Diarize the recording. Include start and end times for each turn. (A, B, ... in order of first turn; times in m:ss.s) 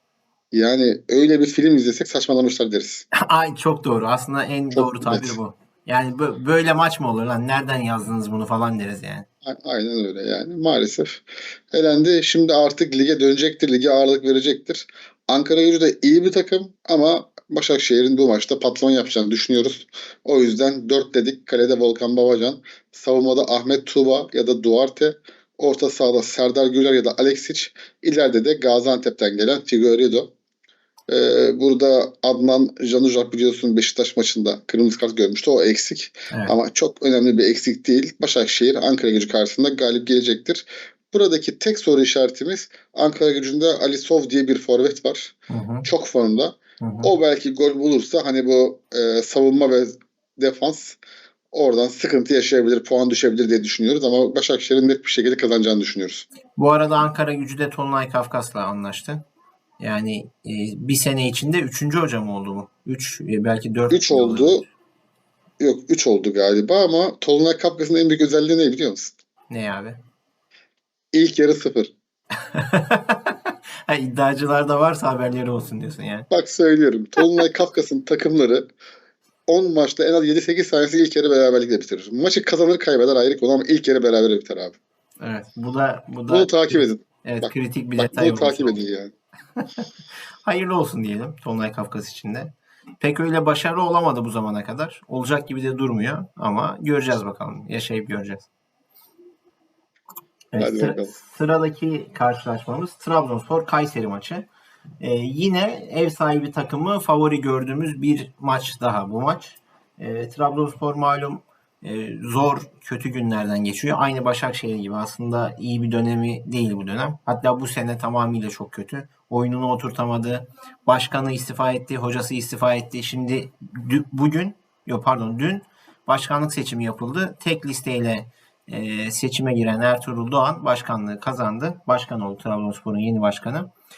0:00.5-0:03.0 A
0:03.1-0:09.2 B
0:04.7-0:05.4 A
0:09.4-0:30.3 A
0:31.1-0:51.0 A
0:45.5-0:45.9 B
0:46.8-0:47.1 B
0:51.5-0:56.2 A
0:56.6-0:59.2 B
0:59.8-1:04.7 B
1:03.9-1:04.6 A
1:05.6-1:09.1 A
1:09.5-1:10.0 B
1:11.1-1:11.9 A
1:12.5-1:16.3 B
1:16.3-1:18.7 A
1:19.5-1:24.8 A
1:25.2-1:28.8 B
1:26.3-1:29.1 A
1:29.6-1:29.8 B
1:30.4-1:38.5 B
1:40.5-1:44.4 B
1:40.6-1:41.1 A
1:45.0-2:13.7 B